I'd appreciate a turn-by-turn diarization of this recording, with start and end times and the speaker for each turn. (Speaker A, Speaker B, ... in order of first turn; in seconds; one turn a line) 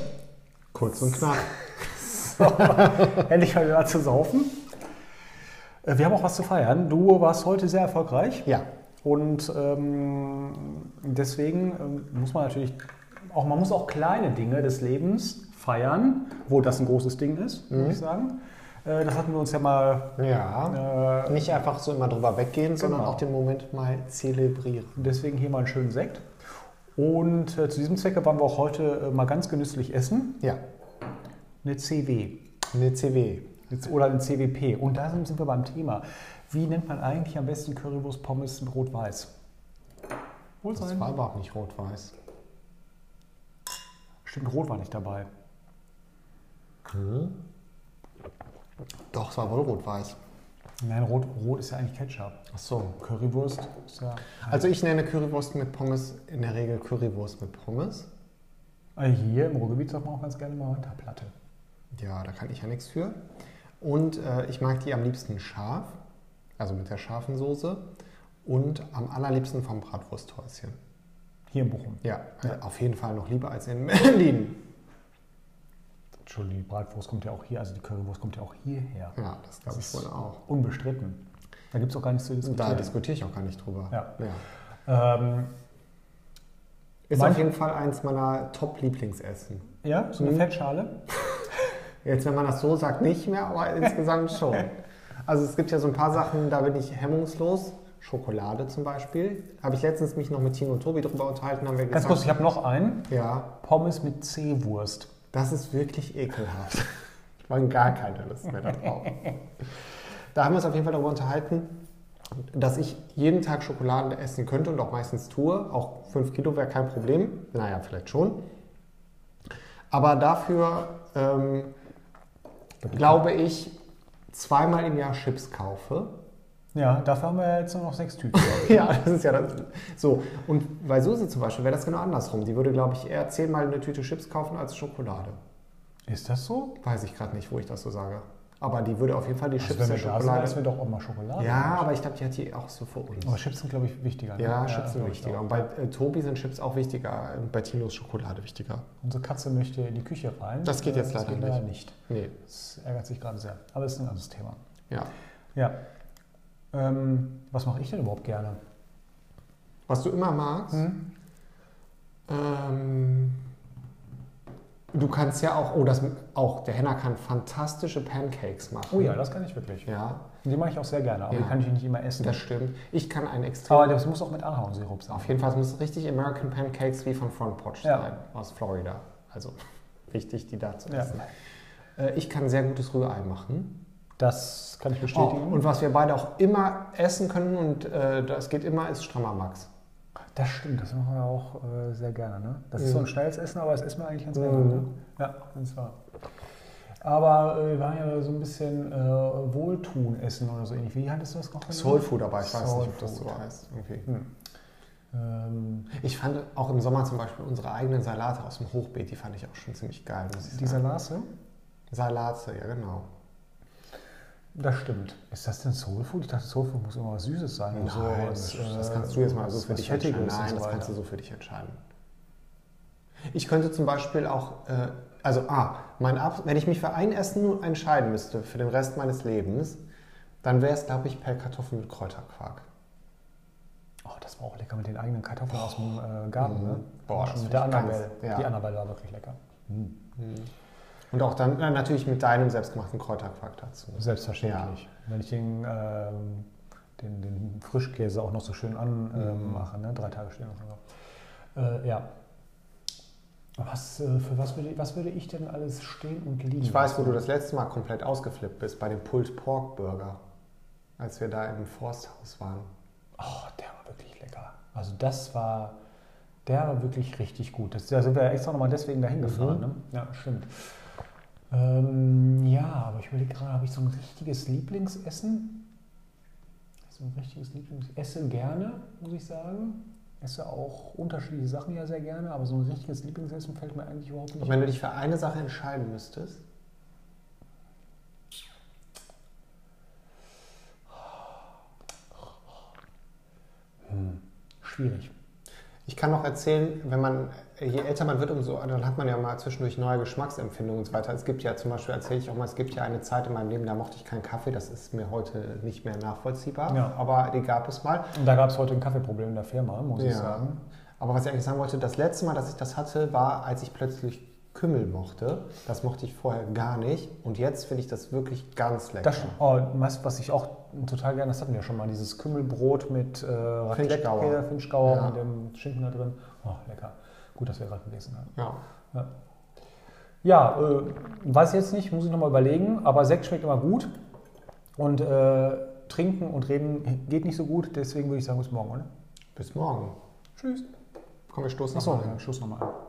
Speaker A: 0.7-1.6
Speaker B: 1.9-4.6
Speaker A: 2.1-2.7
Speaker B: 5.8-8.5
Speaker B: 9.0-20.1
Speaker A: 17.7-18.0
Speaker A: 20.2-25.1
Speaker B: 20.7-21.6
Speaker B: 22.8-23.2
Speaker B: 25.0-26.2
Speaker B: 26.9-30.4
Speaker B: 31.6-32.4
Speaker A: 32.7-33.6
Speaker B: 33.7-39.3
Speaker B: 40.6-41.1
Speaker A: 40.7-42.1
Speaker B: 44.2-45.3
Speaker A: 46.8-47.4
Speaker A: 49.1-50.2
Speaker B: 50.8-52.4
Speaker A: 52.5-52.9
Speaker B: 52.9-54.6
Speaker A: 54.4-58.1
Speaker B: 59.0-61.3
Speaker A: 61.9-63.2
Speaker A: 63.8-66.0
Speaker A: 66.6-67.8
Speaker A: 68.4-70.8
Speaker B: 71.5-72.0
Speaker A: 72.0-74.6
Speaker B: 76.2-79.2
Speaker A: 79.2-80.4
Speaker B: 79.7-83.0
Speaker A: 82.4-84.4
Speaker B: 83.9-84.2
Speaker B: 84.8-85.5
Speaker A: 87.1-90.5
Speaker B: 87.1-87.5
Speaker B: 89.8-90.9
Speaker A: 92.0-102.3
Speaker B: 101.9-105.1
Speaker A: 103.1-103.5
Speaker A: 105.3-106.9
Speaker A: 107.4-109.4
Speaker A: 110.3-111.7
Speaker A: 112.4-118.4
Speaker A: 119.9-121.7
Speaker B: 122.8-123.2
Speaker A: 122.9-123.7
Speaker A: 124.3-126.1
Speaker B: 126.7-128.9
Speaker A: 128.3-135.4
Speaker B: 136.1-136.8
Speaker A: 136.8-140.6
Speaker B: 139.6-141.9
Speaker A: 141.4-143.4
Speaker B: 143.2-145.7
Speaker A: 144.4-148.8
Speaker B: 149.0-154.6
Speaker A: 150.6-152.3
Speaker B: 156.7-158.6
Speaker A: 159.9-160.9
Speaker B: 160.7-161.0
Speaker A: 162.3-163.4
Speaker A: 164.9-169.2
Speaker B: 168.9-169.9
Speaker A: 169.8-170.2
Speaker B: 170.4-172.4
Speaker A: 171.3-171.6
Speaker A: 172.2-174.0
Speaker B: 173.7-175.4
Speaker A: 175.1-179.6
Speaker A: 180.1-181.3
Speaker B: 180.9-181.2
Speaker A: 181.9-183.8
Speaker B: 184.2-185.6
Speaker A: 185.0-189.7
Speaker B: 190.3-195.9
Speaker A: 194.3-194.8
Speaker B: 197.0-203.4
Speaker A: 201.7-204.1
Speaker B: 205.1-205.9
Speaker A: 205.9-210.8
Speaker B: 210.4-211.3
Speaker A: 211.9-213.1
Speaker B: 214.5-220.9
Speaker A: 217.7-221.8
Speaker A: 223.3-229.8
Speaker A: 230.4-232.7
Speaker B: 234.0-239.9
Speaker A: 236.4-238.5
Speaker A: 240.2-240.5
Speaker A: 241.1-244.8
Speaker B: 244.0-250.8
Speaker A: 249.2-249.7
Speaker B: 251.5-252.1
Speaker B: 253.6-257.2
Speaker A: 256.6-260.2
Speaker A: 261.0-262.7
Speaker B: 263.2-265.7
Speaker B: 266.4-270.5
Speaker A: 269.2-269.6
Speaker B: 271.5-275.7
Speaker B: 276.9-284.8
Speaker A: 284.4-286.4
Speaker B: 293.8-295.1
Speaker A: 295.9-308.1
Speaker B: 306.7-307.0
Speaker B: 308.1-310.6
Speaker A: 310.0-310.5
Speaker A: 311.0-319.4
Speaker B: 319.0-328.3
Speaker A: 323.7-325.2
Speaker B: 330.2-333.9
Speaker B: 334.8-338.9
Speaker A: 339.3-339.9
Speaker B: 340.4-340.6
Speaker A: 341.3-342.2
Speaker B: 341.7-342.8